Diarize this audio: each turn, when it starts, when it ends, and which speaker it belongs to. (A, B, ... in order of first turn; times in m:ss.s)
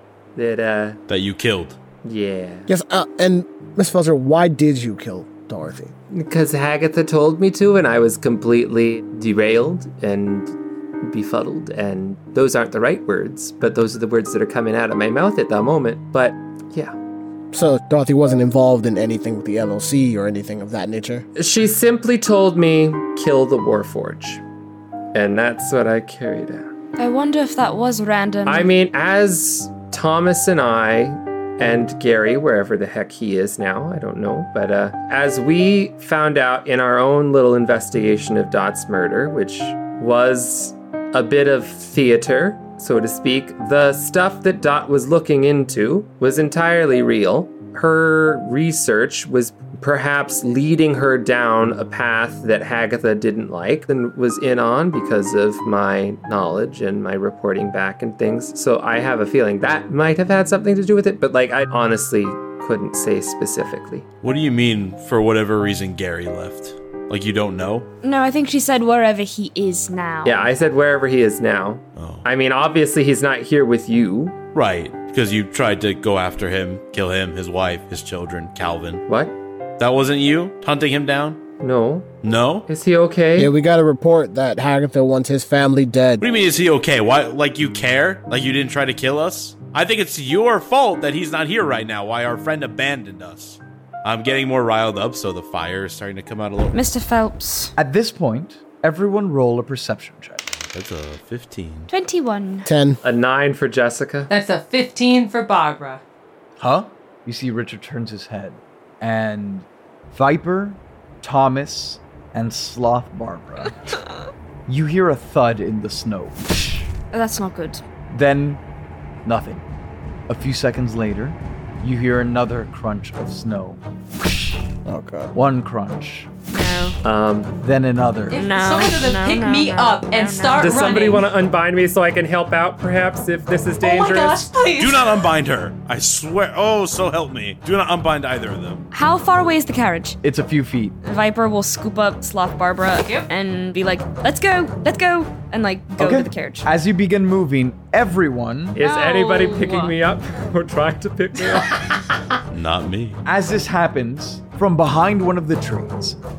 0:00.3-0:01.0 A
0:01.1-0:01.8 B
0:02.0-0:02.7 A
0:02.7-0:05.9 C
0:06.1-0:16.9 A
0:17.5-0:21.2 C
0:21.4-0:24.4 A
0:25.1-0:26.7 A
0:27.0-0:28.7 D
0:28.4-1:04.0 A
1:04.2-1:07.9 B
1:08.0-1:10.4 D
1:10.2-1:14.4 A
1:12.0-1:12.2 B
1:14.5-1:19.0 B
1:19.1-1:19.3 A
1:19.8-1:21.4 B
1:21.6-1:22.1 A
1:22.2-1:22.7 B
1:22.7-1:23.5 A
1:23.4-1:26.2 C
1:26.2-1:36.8 B
1:36.7-1:37.7 D
1:37.8-1:40.5 E
1:40.7-1:41.9 B
1:41.9-1:42.7 D
1:42.6-1:43.0 C
1:43.0-1:44.3 A
1:44.3-1:46.0 F
1:46.6-1:53.8 E
1:54.7-1:56.8 E
1:57.1-1:57.8 D
1:58.1-1:58.6 E
1:59.2-1:59.6 E
2:00.3-2:04.6 E
2:04.8-2:05.3 C
2:05.3-2:06.3 E
2:06.5-2:07.0 D
2:07.0-2:07.5 A
2:07.6-2:08.4 E
2:08.3-2:11.3 F
2:08.3-2:10.8 D
2:10.6-2:14.5 A
2:13.8-2:15.3 F
2:14.8-2:18.8 B
2:18.9-2:20.2 D
2:20.2-2:20.9 E
2:21.0-2:26.7 D
2:22.9-2:23.3 F
2:26.0-2:28.8 E
2:28.8-2:31.8 A
2:28.8-2:29.9 D
2:32.5-2:33.2 B
2:33.2-2:36.2 E